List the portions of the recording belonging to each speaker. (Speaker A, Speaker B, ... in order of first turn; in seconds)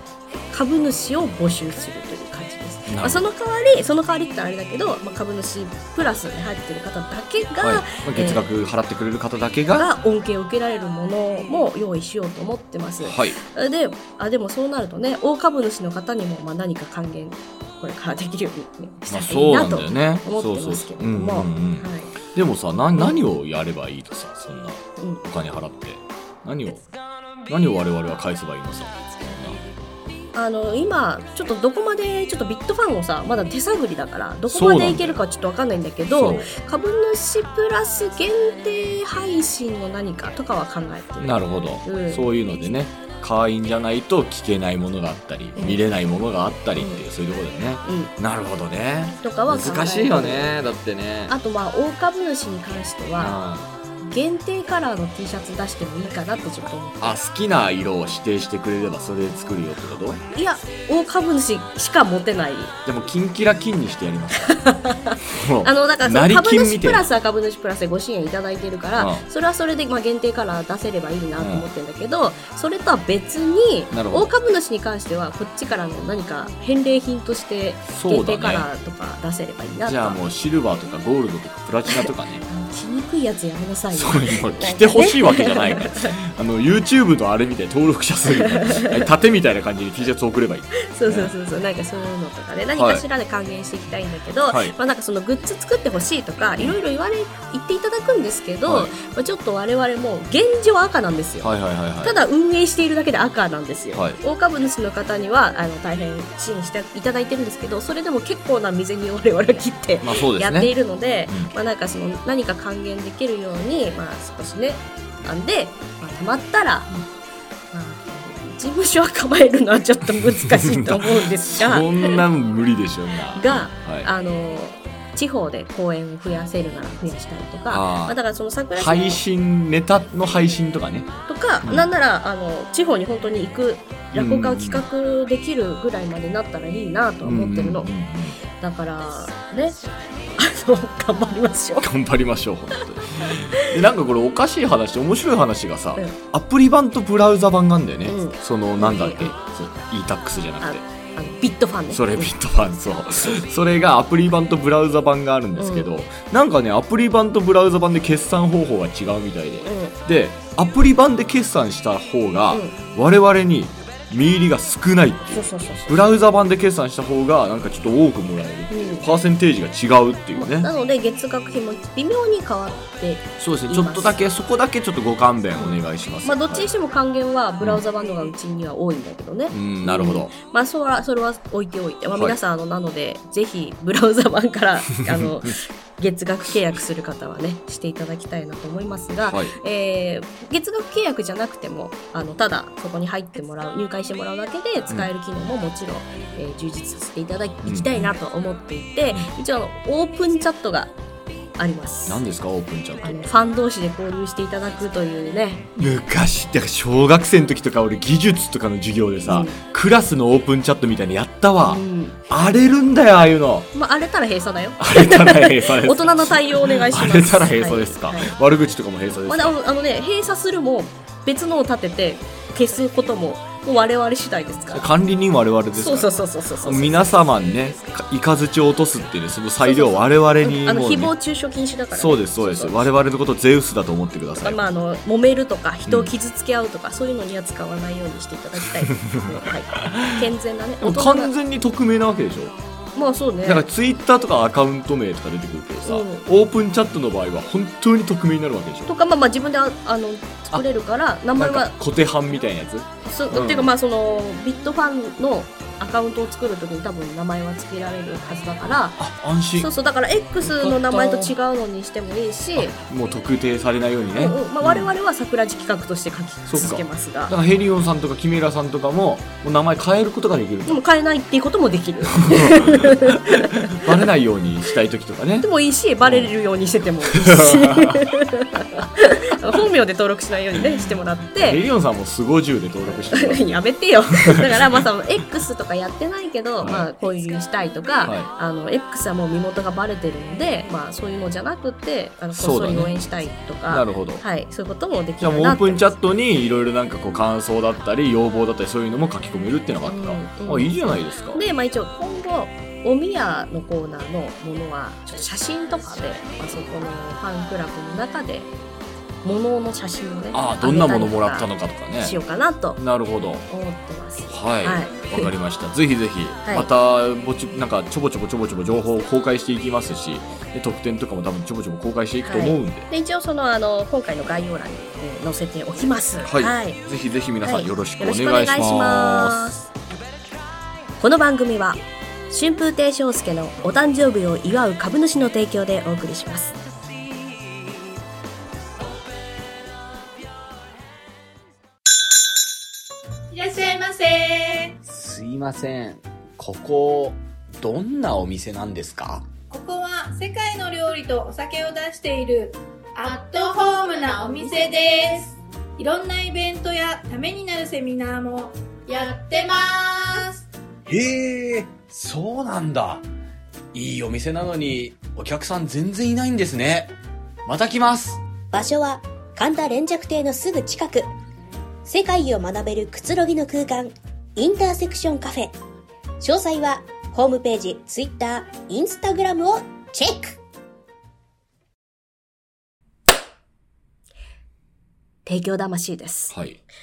Speaker A: 0.5-8.4, 9.8-22.1, 25.0-25.2, 30.3-42.3, 46.8-47.0, 47.8-48.1, 49.2-50.6, 51.3-53.4, 54.0-57.2, 60.3-62.7, 64.5-80.2, 81.9-86.1, 88.5-89.0, 90.8-101.5, 102.0-116.9, 117.7-122.2, 123.3-129.2, 131.3-137.9, 138.6-141.9, 143.3-143.7, 148.1-149.3, 150.6-152.3, 155.6-155.9, 159.6-159.9, 165.3-166.0, 168.7-169.1, 170.3-174.2, 175.6-200.9, 201.6-202.2, 203.0-205.7, 209.2-209.6, 211.7-212.2, 213.7-218.3, 219.3-224.9, 225.8-227.1, 229.6-232.8, 234.4-241.3, 242.9-243.6, 245.8-246.3, 248.9-251.7, 253.0-259.0, 259.6-262.8, 264.2-267.3, 270.6-273.8, 275.4-281.6, 283.1-295.9, 299.9-300.7, 301.3-308.5, 309.2-311.5, 312.0-312.8, 313.5-315.3, 322.2-326.8, 327.4-329.6, 331.0-336.5, 385.2-386.4
Speaker B: 2.9-3.3, 7.6-9.9, 13.0-13.4, 19.1-26.8, 27.5-29.6, 34.5-35.2, 36.1-36.5, 41.2-51.4, 53.2-53.7, 57.0-60.2, 62.8-64.6, 65.2-67.0, 69.0-69.2, 71.4-71.7, 73.9-74.3, 77.9-78.7, 79.8-82.4, 83.9-91.3, 92.7-93.0, 94.5-94.7, 98.7-98.9, 101.4-102.2, 103.9-104.2, 110.0-110.7, 120.1-124.1, 127.7-128.2, 128.7-131.9, 134.1-134.8, 137.2-138.4, 141.8-150.8, 151.9-170.7, 173.4-176.7, 179.5-180.3, 189.3-189.5, 197.6-198.2, 202.1-203.2, 205.8-213.7, 214.8-219.6, 224.7-231.1, 231.9-234.6, 239.9-240.2, 240.8-242.6, 243.4-248.9, 251.3-253.7, 258.9-259.7, 260.4-261.3, 262.6-264.9, 266.5-270.8, 272.2-275.5, 276.0-276.3, 277.1-278.2, 281.4-283.5, 284.1-284.8, 286.6-286.9, 292.3-292.9, 293.7-294.2, 295.2-301.4, 310.3-312.1, 312.8-313.5, 314.3-322.9, 326.2-329.6, 344.8-349.3, 360.9-363.0, 363.7-366.9, 367.4-368.2, 386.3-386.6
Speaker C: 343.3-344.7, 349.5-360.4
Speaker D: 368.5-371.1, 371.8-375.5, 376.2-380.4